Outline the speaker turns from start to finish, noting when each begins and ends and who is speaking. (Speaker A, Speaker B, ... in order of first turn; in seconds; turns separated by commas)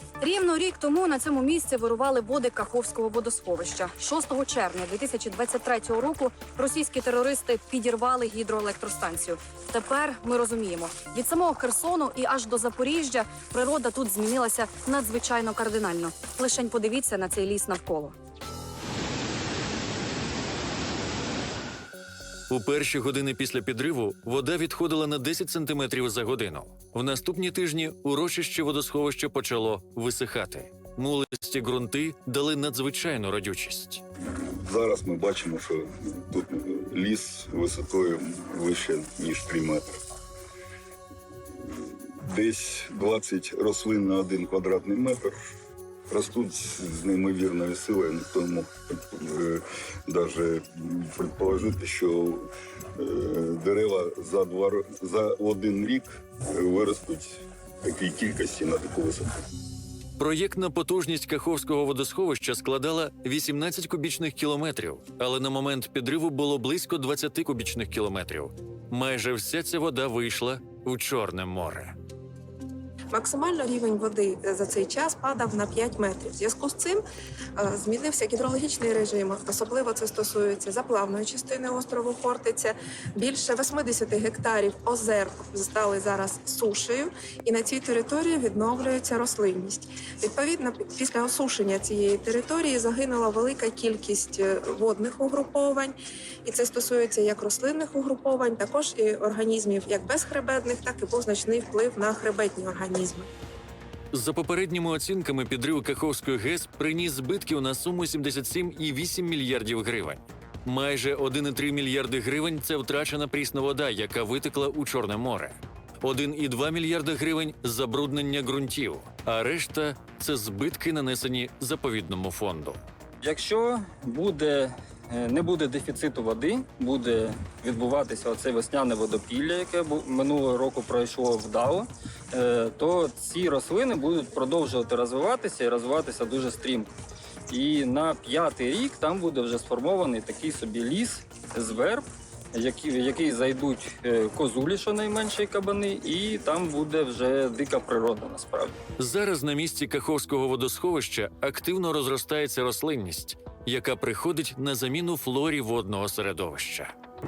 Speaker A: 0.2-18.1, Speaker B: 22.5-34.0, Speaker C: 34.4-40.0, Speaker C: 42.1-45.4, Speaker C: 46.1-59.4, Speaker B: 60.2-72.0, Speaker D: 73.1-77.0, Speaker D: 77.5-103.3, Speaker B: 104.1-122.8, Speaker E: 123.2-136.9, Speaker E: 137.5-148.7, Speaker B: 149.0-156.9